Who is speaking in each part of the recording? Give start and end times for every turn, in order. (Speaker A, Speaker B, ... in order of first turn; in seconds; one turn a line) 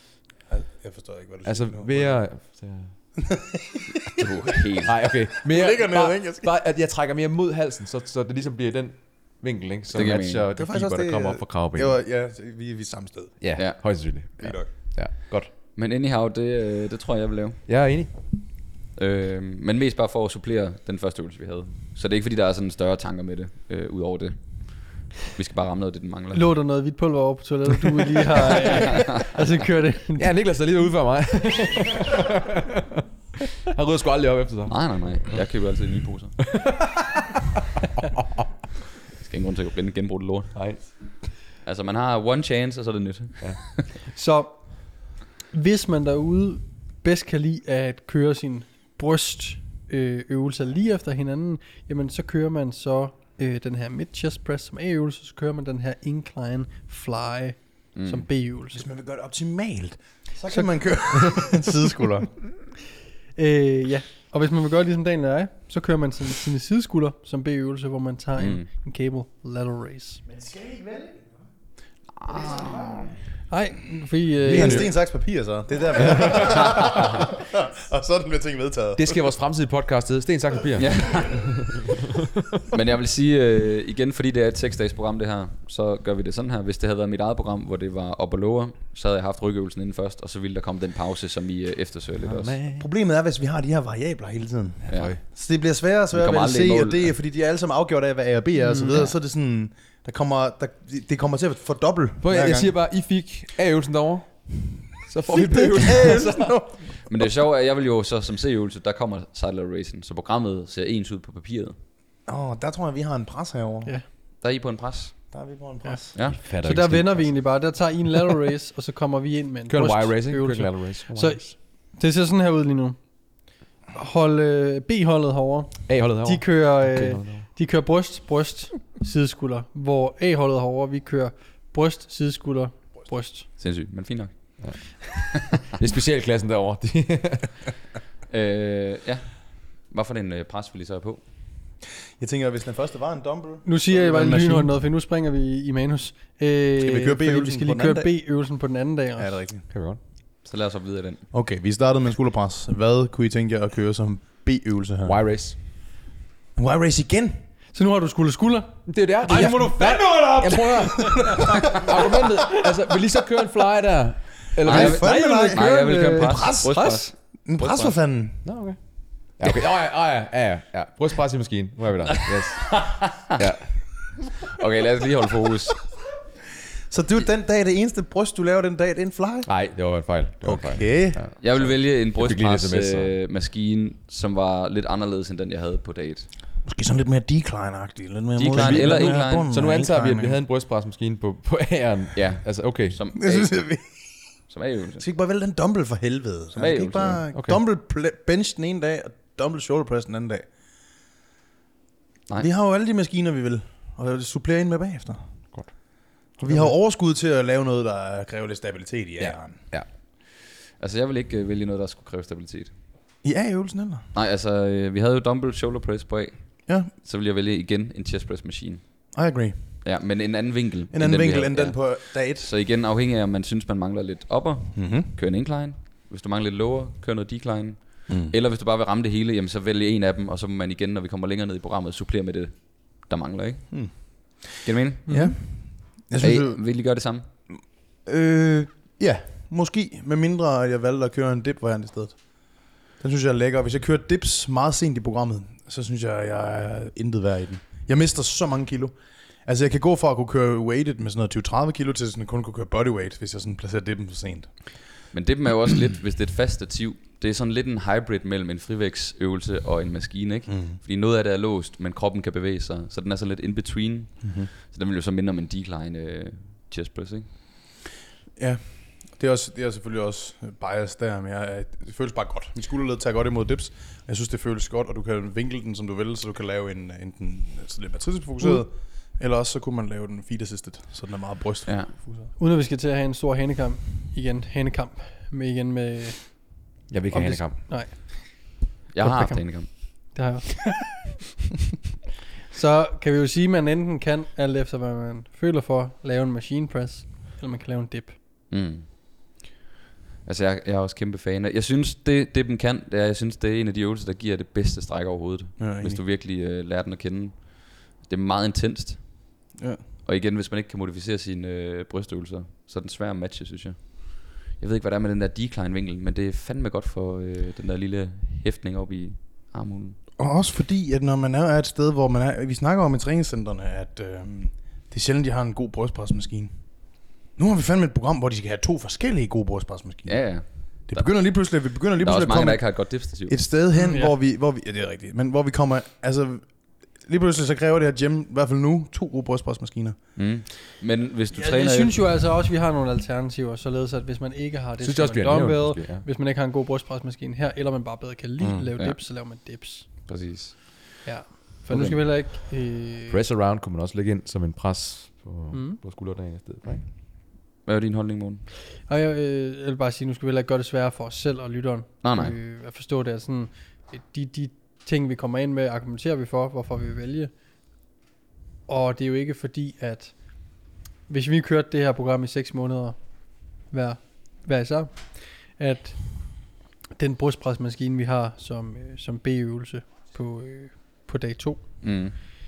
Speaker A: 0.5-2.3
Speaker B: 1.4-3.1
Speaker A: 3.2-4.3
Speaker C: 4.2-4.9
Speaker B: 4.8-11.9
Speaker A: 5.3-6.5
Speaker C: 9.9-10.4
Speaker A: 10.5-13.8
Speaker B: 13.4-15.5
Speaker C: 13.6-14.0
Speaker A: 14.4-14.7
Speaker C: 15.5-17.6
Speaker B: 17.6-18.1
Speaker C: 18.9-26.5
Speaker D: 26.3-30.3
Speaker B: 30.2-33.0
Speaker B: 33.6-35.4
Speaker C: 34.7-36.6
Speaker B: 36.4-37.4
Speaker C: 39.2-43.9
Speaker B: 40.5-40.9
Speaker D: 44.1-58.8
Speaker C: 57.9-58.2
Speaker A: 58.7-62.4
Speaker D: 63.3-70.2
Speaker C: 68.4-68.7
Speaker A: 70.5-71.1
Speaker C: 72.2-73.2
Speaker D: 73.5-74.9
Speaker B: 74.4-74.9
Speaker A: 74.5-79.3
Speaker B: 79.0-81.9
Speaker C: 80.8-81.7
Speaker C: 82.7-92.5
Speaker B: 92.2-92.9
Speaker A: 92.8-102.7
Speaker B: 94.9-95.2
Speaker C: 94.9-95.2
Speaker C: 96.1-97.1
Speaker D: 98.6-99.1
Speaker B: 102.2-106.6
Speaker A: 105.3-107.3
Speaker C: 107.1-111.8
Speaker A: 112.3-113.9
Speaker C: 114.4-115.3
Speaker A: 115.3-116.3
Speaker D: 115.8-133.5
Speaker B: 116.3-117.4
Speaker B: 119.7-121.5
Speaker B: 125.9-127.5
Speaker C: 133.6-135.6
Speaker B: 134.6-137.7
Speaker C: 138.3-141.2
Speaker A: 142.2-144.7
Speaker D: 143.6-149.4
Speaker A: 146.8-148.2
Speaker A: 149.2-149.7
Speaker B: 149.7-150.0
Speaker C: 150.4-151.2
Speaker A: 151.3-155.6
Speaker B: 155.0-155.6
Speaker A: 156.6-157.4
Speaker D: 157.7-158.9
Speaker B: 158.8-166.0
Speaker A: 159.2-162.3
Speaker A: 164.6-168.4
Speaker C: 164.6-167.9
Speaker D: 165.3-167.1
Speaker B: 168.4-174.1
Speaker C: 172.5-173.4
Speaker C: 174.3-175.9
Speaker A: 176.9-179.5
Speaker B: 179.4-183.1
Speaker A: 180.4-181.5
Speaker C: 181.4-186.3
Speaker A: 186.6-190.4
Speaker C: 188.3-189.5
Speaker B: 188.5-193.0
Speaker C: 192.1-193.8
Speaker A: 193.2-200.5
Speaker C: 194.5-195.0
Speaker C: 196.6-197.2
Speaker B: 197.3-197.6
Speaker A: 202.4-205.8
Speaker B: 205.5-206.7
Speaker A: 206.4-209.6
Speaker B: 209.2-209.9
Speaker C: 210.8-212.7
Speaker A: 213.2-214.1
Speaker C: 214.1-219.2
Speaker A: 219.1-219.8
Speaker C: 219.8-235.6
Speaker A: 220.9-222.5
Speaker A: 224.7-225.1
Speaker A: 228.1-228.3
Speaker A: 233.7-236.6
Speaker D: 235.1-235.3
Speaker C: 236.1-237.3
Speaker A: 237.5-254.8
Speaker C: 255.1-267.3
Speaker A: 260.5-260.8
Speaker A: 264.2-264.5
Speaker A: 268.4-282.3
Speaker C: 281.6-281.9
Speaker D: 282.4-291.0
Speaker B: 286.9-287.7
Speaker C: 288.9-290.1
Speaker D: 292.5-298.1
Speaker C: 298.5-298.9
Speaker C: 300.2-309.4
Speaker A: 305.6-306.0
Speaker A: 309.6-309.8
Speaker C: 310.0-320.0
Speaker A: 320.2-340.0
Speaker C: 330.1-333.5
Speaker D: 333.7-334.1
Speaker C: 340.1-342.1
Speaker D: 341.3-350.1
Speaker B: 344.8-346.1
Speaker A: 348.4-348.7
Speaker C: 348.8-349.0
Speaker C: 350.1-351.0
Speaker D: 351.0-353.2
Speaker B: 351.7-352.4
Speaker B: 353.1-356.8
Speaker D: 355.5-355.8
Speaker C: 357.6-358.5
Speaker D: 358.9-367.3
Speaker C: 362.0-362.3
Speaker D: 368.7-382.3
Speaker C: 381.8-382.1